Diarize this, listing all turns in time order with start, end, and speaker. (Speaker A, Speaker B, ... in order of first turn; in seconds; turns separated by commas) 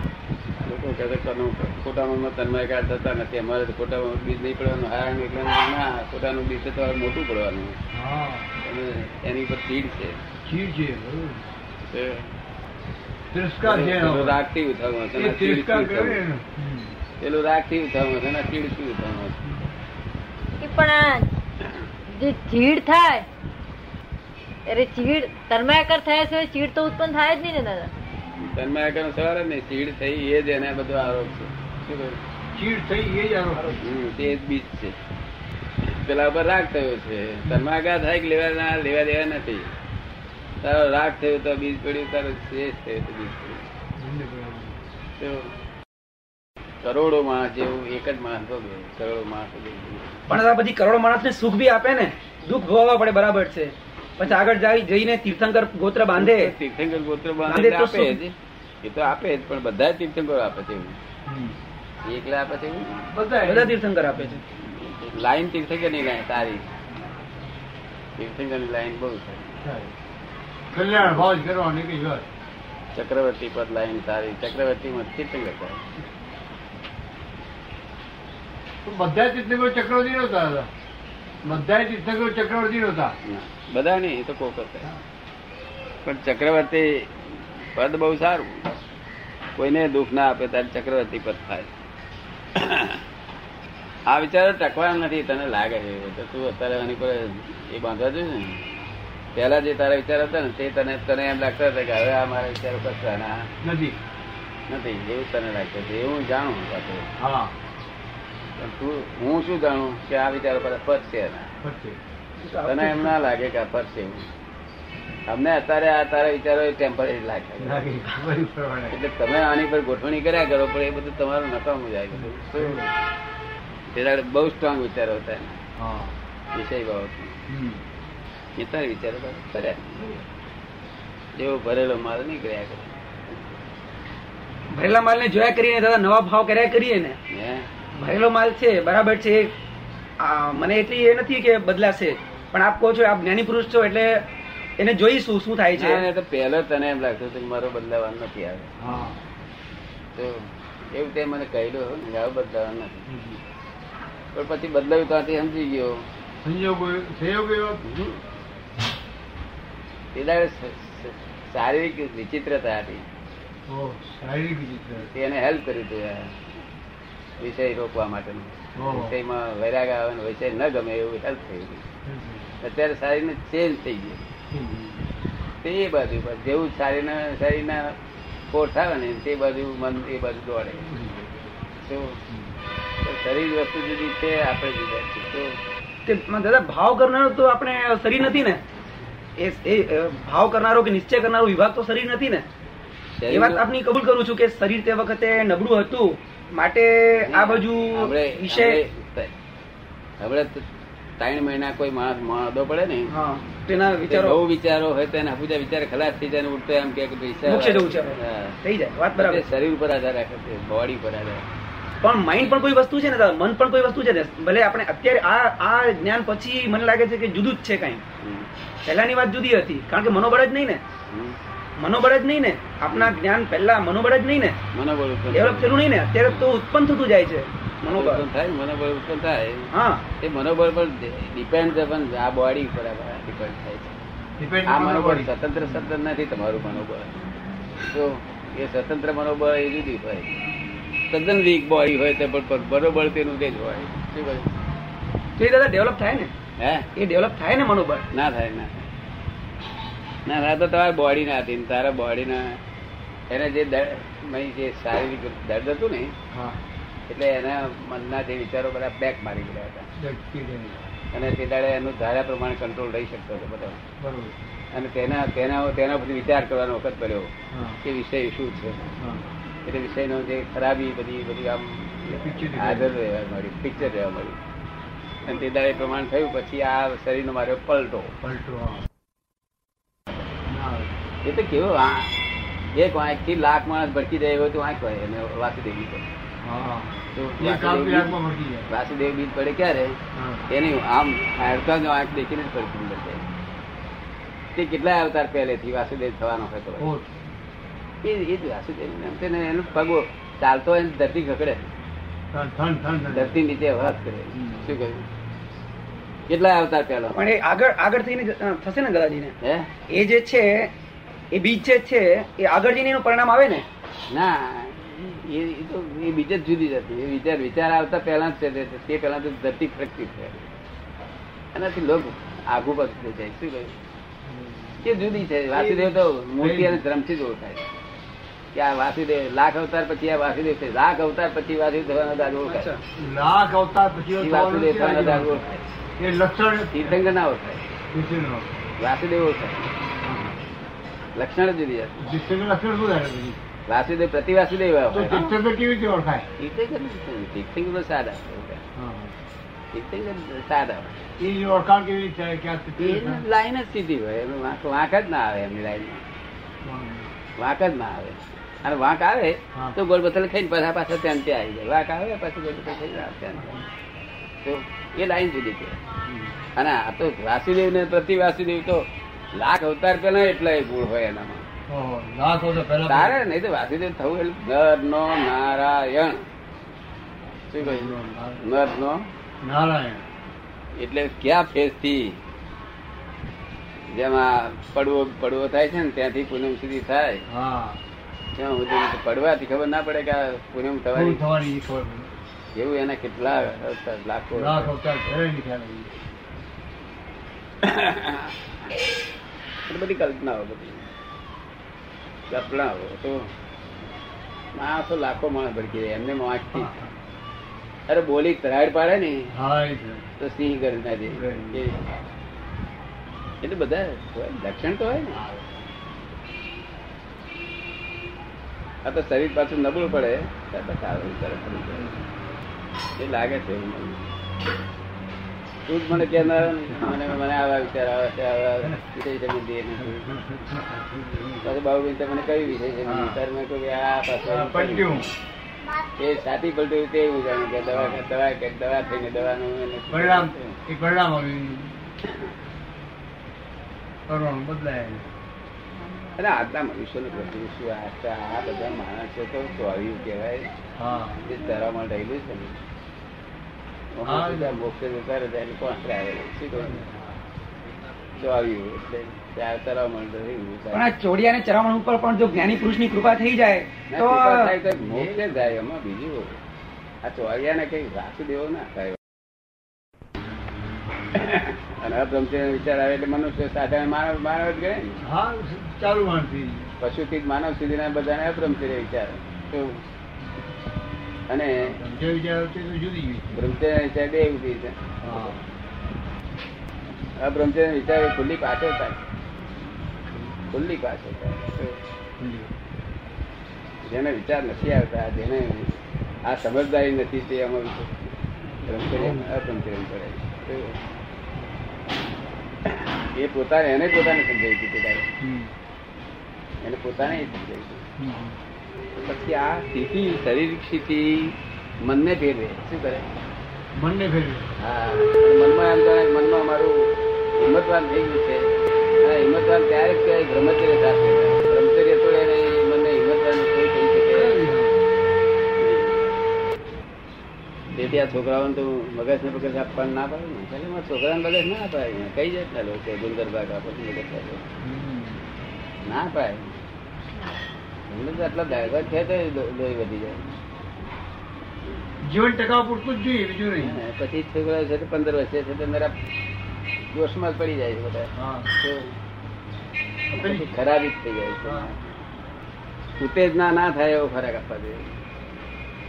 Speaker A: 0.6-7.8, Speaker B: 7.9-8.5, Speaker A: 8.6-10.2, Speaker B: 10.5-11.4, Speaker A: 11.9-12.3, Speaker B: 13.3-14.4, Speaker A: 13.7-16.2, Speaker B: 15.2-17.0, Speaker A: 17.2-19.5, Speaker C: 20.6-21.3, Speaker C: 22.1-23.3, Speaker C: 24.7-27.9, Speaker A: 28.4-32.2, Speaker B: 32.5-33.8, Speaker A: 33.8-35.0, Speaker A: 35.9-39.7, Speaker A: 40.6-43.6, Speaker B: 44.0-44.8, Speaker A: 45.2-45.5, Speaker A: 46.8-50.1, Speaker D: 50.3-56.5, Speaker A: 56.2-61.0, Speaker D: 57.5-58.2, Speaker B: 61.3-61.6, Speaker A: 62.0-63.1, Speaker B: 63.1-64.4, Speaker D: 63.4-64.4, Speaker A: 64.6-66.7, Speaker A: 68.2-69.6, Speaker B: 69.6-69.9, Speaker B: 70.7-72.3, Speaker A: 71.0-71.3, Speaker A: 73.0-75.8, Speaker B: 78.8-80.7, Speaker B: 81.4-83.2, Speaker A: 83.2-84.9, Speaker A: 86.0-88.7, Speaker A: 89.6-91.7, Speaker A: 92.6-93.0, Speaker A: 94.1-98.6, Speaker A: 99.3-103.5, Speaker B: 103.6-104.0, Speaker A: 104.7-107.1, Speaker B: 107.2-107.5, Speaker A: 108.6-111.5, Speaker B: 111.6-112.0, Speaker D: 112.4-113.1, Speaker A: 112.7-114.3, Speaker A: 115.3-117.8, Speaker B: 117.6-119.0, Speaker A: 118.9-122.8, Speaker B: 122.1-122.9, Speaker A: 123.9-125.6, Speaker B: 125.8-126.2, Speaker A: 126.5-127.3, Speaker B: 127.5-127.8, Speaker A: 128.6-130.2, Speaker A: 131.4-132.9, Speaker D: 134.7-137.2, Speaker A: 137.3-137.7, Speaker D: 138.0-139.5, Speaker D: 140.2-144.2, Speaker D: 144.8-146.1, Speaker A: 145.7-148.7, Speaker B: 148.8-149.2, Speaker A: 150.2-153.1, Speaker B: 153.1-153.4, Speaker A: 154.3-156.1, Speaker B: 156.4-157.8, Speaker A: 157.8-158.2, Speaker A: 160.1-163.1, Speaker B: 163.7-165.1, Speaker A: 165.1-166.4, Speaker A: 167.4-171.8, Speaker B: 168.8-169.2, Speaker B: 172.1-172.5, Speaker A: 172.6-174.2, Speaker B: 174.5-175.0, Speaker A: 175.6-178.0, Speaker A: 178.5-180.9, Speaker B: 180.9-181.3, Speaker A: 181.8-182.2, Speaker B: 182.3-182.6, Speaker A: 183.0-185.6, Speaker D: 186.1-188.6, Speaker D: 189.4-192.4, Speaker A: 193.2-193.7, Speaker D: 193.3-198.8, Speaker A: 197.2-199.3, Speaker A: 200.2-200.6, Speaker A: 201.2-203.1, Speaker D: 203.1-204.4, Speaker A: 204.1-208.6, Speaker D: 207.4-209.4, Speaker A: 209.2-211.4, Speaker D: 212.0-218.0, Speaker A: 218.2-218.5, Speaker D: 218.8-220.8, Speaker A: 221.1-221.4, Speaker D: 221.8-224.6, Speaker A: 224.7-226.5, Speaker D: 225.3-228.2, Speaker A: 227.9-234.0, Speaker D: 229.7-230.0, Speaker B: 234.4-235.3, Speaker A: 234.7-237.2, Speaker A: 237.8-240.3, Speaker A: 241.1-244.5, Speaker D: 245.4-246.3, Speaker A: 246.6-246.9, Speaker D: 247.0-248.1, Speaker A: 248.1-248.9, Speaker A: 250.3-252.6, Speaker A: 253.3-256.1, Speaker B: 256.3-256.6, Speaker A: 257.1-259.9, Speaker B: 260.0-260.8, Speaker A: 261.1-263.8, Speaker B: 264.0-264.4, Speaker A: 264.7-267.3, Speaker B: 267.5-267.8, Speaker A: 267.8-268.9, Speaker B: 269.0-269.3, Speaker A: 269.6-274.4, Speaker B: 272.1-272.9, Speaker A: 275.2-278.1, Speaker B: 278.2-278.9, Speaker B: 280.5-280.9, Speaker A: 281.2-282.2, Speaker A: 282.8-286.1, Speaker B: 286.4-288.7, Speaker A: 287.1-288.2, Speaker A: 288.7-290.0, Speaker B: 290.1-290.4, Speaker A: 290.5-293.2, Speaker A: 294.6-296.9, Speaker B: 296.8-297.1, Speaker A: 298.0-301.7, Speaker B: 302.3-303.4, Speaker A: 303.1-305.1, Speaker B: 304.4-304.8, Speaker A: 306.3-307.2, Speaker D: 307.1-309.4, Speaker A: 309.4-309.7, Speaker D: 309.9-310.7, Speaker D: 311.3-313.6, Speaker A: 314.1-320.5, Speaker A: 321.5-323.8, Speaker B: 324.3-324.8, Speaker A: 324.8-327.7, Speaker B: 325.5-326.8, Speaker A: 328.5-332.7, Speaker D: 332.4-332.8, Speaker B: 333.0-335.4, Speaker A: 334.1-335.6, Speaker B: 336.0-337.0, Speaker A: 336.7-337.6, Speaker B: 337.9-338.5, Speaker A: 338.8-339.7, Speaker B: 340.0-340.4, Speaker A: 341.2-342.0, Speaker B: 342.0-343.4, Speaker A: 343.7-345.3, Speaker B: 344.9-346.3, Speaker A: 346.4-348.6, Speaker B: 348.8-349.1, Speaker A: 349.7-351.0, Speaker B: 351.2-353.2, Speaker A: 352.8-356.0, Speaker B: 356.6-357.1, Speaker A: 357.4-363.6, Speaker B: 363.4-363.6, Speaker A: 364.4-365.8, Speaker B: 366.1-366.4, Speaker A: 366.6-368.8, Speaker A: 369.4-371.4, Speaker B: 371.7-373.2, Speaker A: 372.9-376.2, Speaker A: 377.5-379.1, Speaker B: 377.6-378.4, Speaker B: 379.4-380.1, Speaker A: 380.8-382.2, Speaker A: 383.9-387.2, Speaker B: 387.3-387.8, Speaker A: 388.4-391.2, Speaker B: 390.9-392.1, Speaker A: 392.6-394.7, Speaker B: 394.4-395.9, Speaker A: 397.6-398.3, Speaker A: 399.7-400.9, Speaker A: 402.3-403.3, Speaker A: 404.6-406.7, Speaker B: 406.5-406.9, Speaker A: 407.9-409.2, Speaker B: 409.3-410.1, Speaker A: 410.2-411.8, Speaker B: 411.1-411.6, Speaker A: 413.4-415.2, Speaker A: 418.9-421.9, Speaker B: 421.7-422.0, Speaker A: 423.0-424.0, Speaker A: 425.7-430.1, Speaker B: 425.9-427.1, Speaker B: 429.8-431.5, Speaker A: 431.4-435.1, Speaker B: 432.9-433.2, Speaker B: 434.3-435.1, Speaker A: 436.0-440.6, Speaker B: 437.7-438.0, Speaker B: 439.9-441.8, Speaker B: 444.1-445.1, Speaker A: 446.1-450.5, Speaker B: 450.8-451.2, Speaker A: 451.2-452.6, Speaker A: 453.9-456.9, Speaker B: 454.1-454.6, Speaker B: 456.6-456.9, Speaker A: 458.2-460.9, Speaker D: 460.7-464.6, Speaker A: 463.9-466.4, Speaker B: 464.7-465.6, Speaker A: 467.0-469.0, Speaker A: 471.1-475.0, Speaker B: 475.0-476.7, Speaker A: 476.8-479.8, Speaker A: 481.3-481.8, Speaker B: 481.6-483.4, Speaker A: 483.3-485.4, Speaker B: 485.0-485.4, Speaker A: 487.2-489.0, Speaker B: 490.1-490.4, Speaker A: 490.5-491.8, Speaker B: 492.2-492.5, Speaker A: 493.9-495.7, Speaker A: 496.3-497.9, Speaker A: 498.6-500.8, Speaker B: 498.9-499.3, Speaker A: 502.7-505.1, Speaker B: 505.2-505.5, Speaker A: 506.6-507.8, Speaker B: 508.0-508.4, Speaker A: 508.9-513.2, Speaker B: 513.8-514.5, Speaker A: 514.6-524.4, Speaker B: 524.1-524.9, Speaker A: 525.6-526.1, Speaker A: 527.7-534.4, Speaker B: 534.6-535.2, Speaker A: 535.9-536.5, Speaker A: 537.9-540.3, Speaker B: 542.0-543.8, Speaker A: 543.6-545.9, Speaker A: 546.9-548.9, Speaker B: 548.1-548.5, Speaker B: 550.1-550.5, Speaker A: 550.2-552.0, Speaker B: 551.5-551.7, Speaker A: 553.0-554.9